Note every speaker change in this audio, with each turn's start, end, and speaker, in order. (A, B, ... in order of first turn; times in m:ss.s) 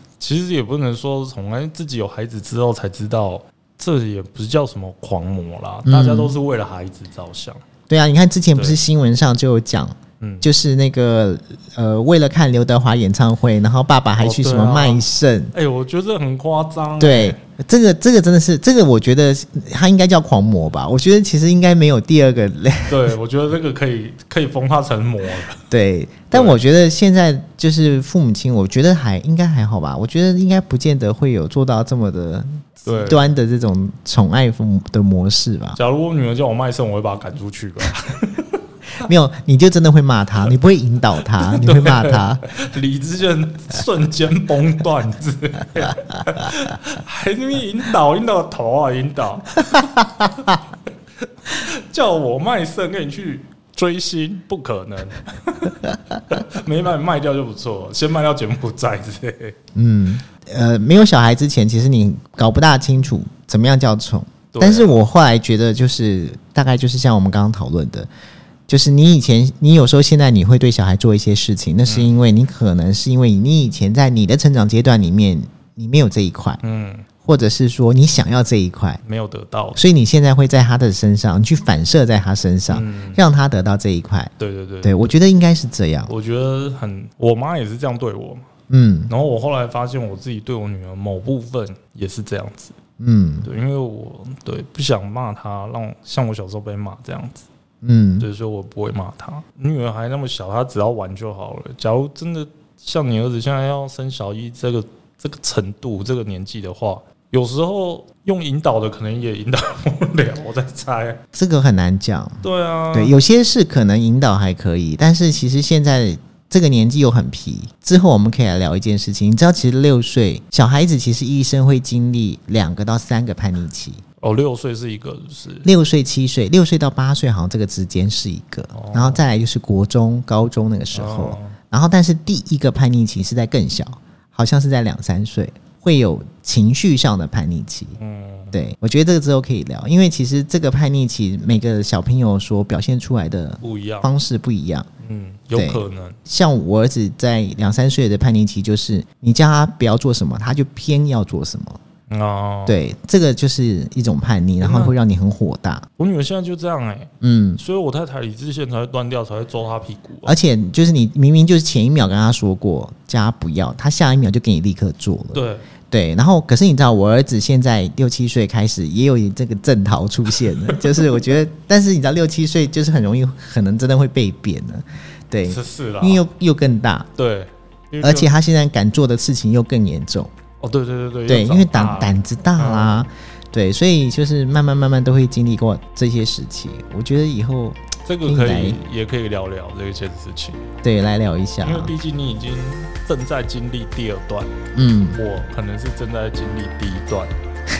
0:00.2-0:07.6 A
0:05.8-0:06.3 B
0:07.9-0:15.5 B
0:10.2-0:10.5 A
0:14.2-0:17.4 A
0:17.0-0:23.1 B
0:22.9-0:25.6 A
0:25.7-0:35.8 B
0:26.3-0:26.6 A
0:32.8-0:33.2 A
0:35.8-0:38.6 A
0:39.0-0:42.4 B
0:41.4-0:50.6 A
0:51.4-0:59.5 A
0:59.7-1:08.1 B
1:04.5-1:05.0 A
1:08.7-1:16.6 B
1:11.8-1:12.1 A
1:16.6-1:17.0 A
1:17.2-1:19.0 B
1:19.0-1:19.8 A
1:19.8-1:26.1 B
1:22.7-1:23.2 A
1:24.4-1:25.1 A
1:26.1-1:28.5 A
1:28.7-1:29.1 B
1:29.1-1:32.7 A
1:33.0-1:33.5 B
1:33.4-1:37.5 A
1:37.8-1:38.3 B
1:38.2-1:51.2 A
1:51.3-2:04.0 B
1:52.4-1:53.2 A
2:04.2-2:05.7 A
2:05.6-2:18.0 B
2:08.7-2:09.2 A
2:10.9-2:11.6 A
2:18.0-2:18.6 A
2:18.5-2:24.9 B
2:23.6-2:24.1 A
2:25.0-2:26.2 A
2:25.5-2:31.8 B
2:32.1-2:32.8 A
2:32.6-2:35.8 B
2:34.6-2:35.0 A
2:36.0-2:40.3 A
2:37.2-2:37.6 B
2:40.2-2:57.1 B
2:45.3-2:45.6 A
2:50.7-2:51.1 A
2:55.4-2:56.2 A
2:57.1-2:58.3 A
2:58.0-3:00.3 B
3:00.6-3:03.1 A
3:01.2-3:08.8 B
3:08.0-3:10.6 A
3:10.8-3:11.9 B
3:11.6-3:14.5 A
3:14.7-3:15.2 B
3:15.1-3:17.3 A